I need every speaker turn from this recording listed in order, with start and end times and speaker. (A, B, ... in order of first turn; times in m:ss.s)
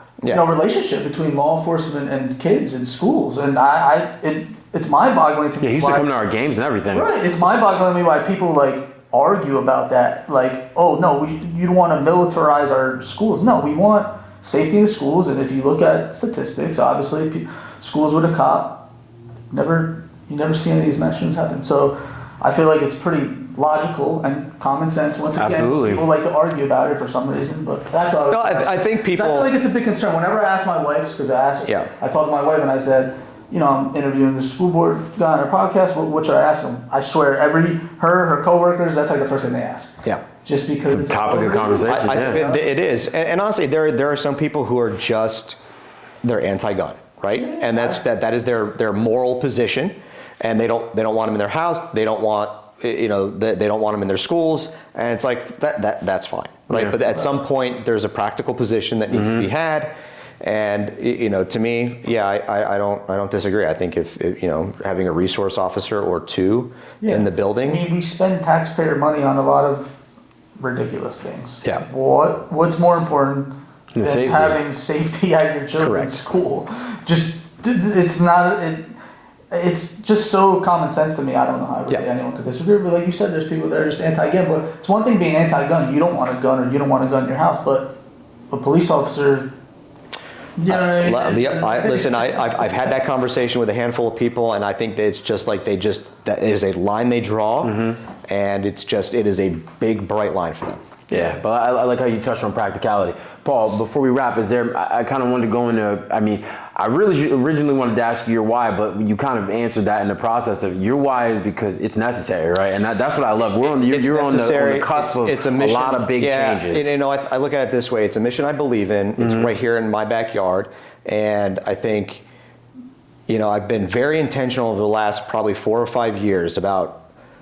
0:00.3-0:06.1 A
0:05.6-0:07.1 B
0:06.9-0:18.8 A
0:19.5-0:42.6 A
0:25.4-0:26.0 B
0:28.3-0:29.5 C
0:40.9-0:42.4 B
0:41.8-0:45.6 C
0:46.2-1:07.8 C
0:47.4-0:48.0 A
0:59.1-0:59.4 B
1:07.0-1:09.9 A
1:10.6-1:18.9 A
1:13.9-1:14.6 B
1:15.8-1:16.2 C
1:19.5-1:27.9 A
1:28.5-1:29.5 A
1:30.6-1:32.8 A
1:30.7-1:40.8 C
1:37.6-1:38.0 B
1:41.1-1:56.9 B
1:53.6-2:02.2 C
1:59.2-1:59.5 B
2:03.3-2:07.1 C